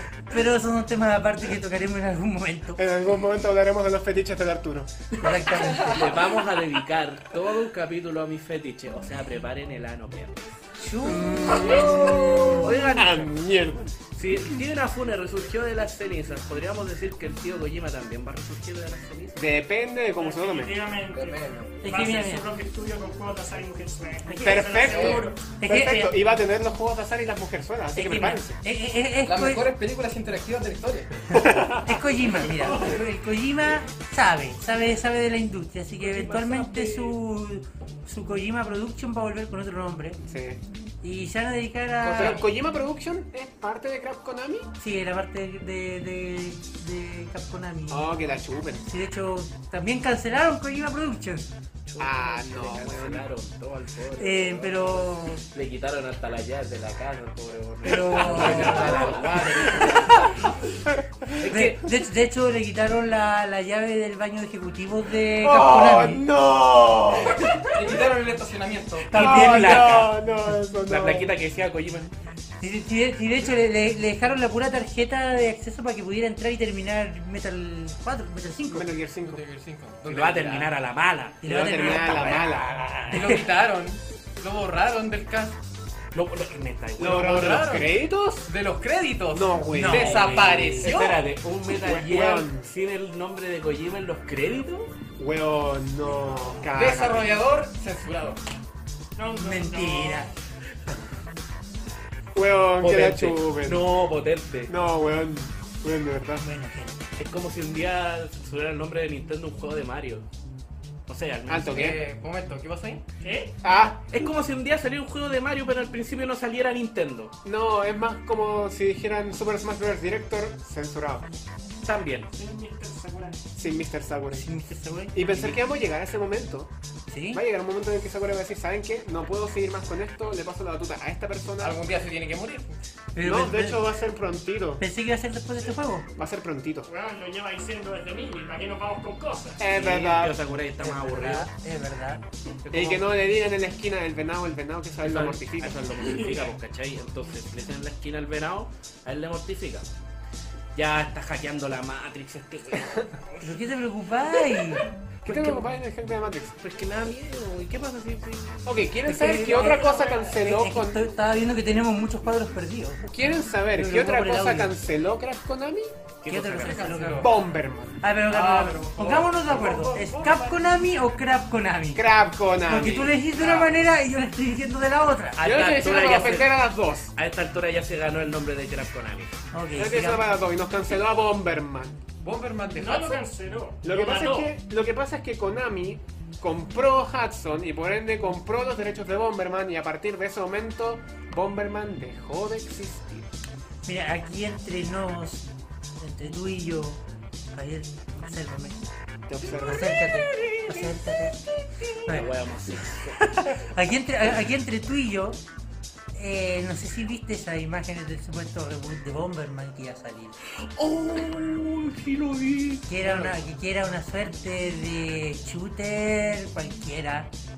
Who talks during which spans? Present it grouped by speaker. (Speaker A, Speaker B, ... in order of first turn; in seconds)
Speaker A: 0.3-2.8, 5.2-6.1, 10.8-12.9, 21.8-22.4, 24.2-24.8, 25.6-26.2, 27.9-29.7, 31.8-40.2, 41.0-42.4, 44.8-48.1, 48.9-51.5, 54.2-55.4, 57.8-60.0, 61.4-66.2, 69.1-70.5, 72.6-78.9, 81.4-83.5, 89.7-90.1, 99.4-100.3, 106.4-107.0, 124.3-125.6, 127.1-127.4, 133.2-133.8, 134.8-136.1, 140.8-142.2, 153.4-155.6, 159.0-164.7, 166.2-167.3, 168.0-172.1, 172.7-175.8, 179.5-180.3, 193.8-195.4, 196.0-197.0, 197.5-198.8, 199.6-201.4, 202.0-202.3, 203.3-205.4, 206.1-210.4, 212.9-217.3
Speaker B: 2.8-4.9, 11.0-13.9, 19.3-20.8, 24.4-28.6, 31.3-31.9, 40.2-40.6, 42.1-44.7, 47.9-48.8, 52.0-53.2, 58.4-59.9, 60.9-61.3, 65.4-67.6, 69.1-71.3, 78.7-79.4, 81.4-82.7, 87.0-88.5, 89.3-90.9, 91.7-92.7, 95.2-97.4, 102.3-103.8, 104.7-106.4, 111.5-112.0, 113.6-114.0, 117.4-121.3, 123.5-124.5, 125.1-126.7, 127.3-131.8, 133.2-134.8, 136.2-136.9, 139.6-140.4, 142.7-145.9, 152.7-153.1, 155.2-156.6, 158.6-161.1, 163.1-165.9, 167.2-168.0, 171.9-173.2, 175.4-177.1, 179.7-182.0, 183.8-193.3, 199.3-200.1
Speaker C: 5.6-6.0, 21.1-21.8, 24.9-25.2, 29.2-31.4, 42.0-42.5, 58.2-60.0, 67.7-69.3, 79.2-80.7, 83.1-85.6, 87.0-91.2, 96.7-98.4, 111.7-113.0, 131.6-132.8, 166.6-167.3, 168.3-170.6, 173.4-173.7, 182.2-183.2
Speaker D: 5.7-10.6, 12.6-13.3, 14.1-19.4, 36.0-37.1, 51.9-60.5, 61.3-61.8, 69.1-70.2, 70.9-72.1, 80.0-83.1, 86.1-87.7, 89.9-94.9, 102.8-104.7, 107.2-110.2, 111.1-111.9, 114.1-117.3, 121.8-122.3, 139.7-141.5, 142.6-143.1, 145.0-149.9, 150.7-153.1, 156.6-159.7, 166.2-167.0, 175.7-179.4, 200.3-200.9, 201.8-203.3, 210.6-213.3
Speaker E: 20.1-25.5, 99.2-100.3, 113.2-113.5, 122.3-123.4, 136.8-139.6, 146.0-146.5, 159.4-160.3, 182.7-184.5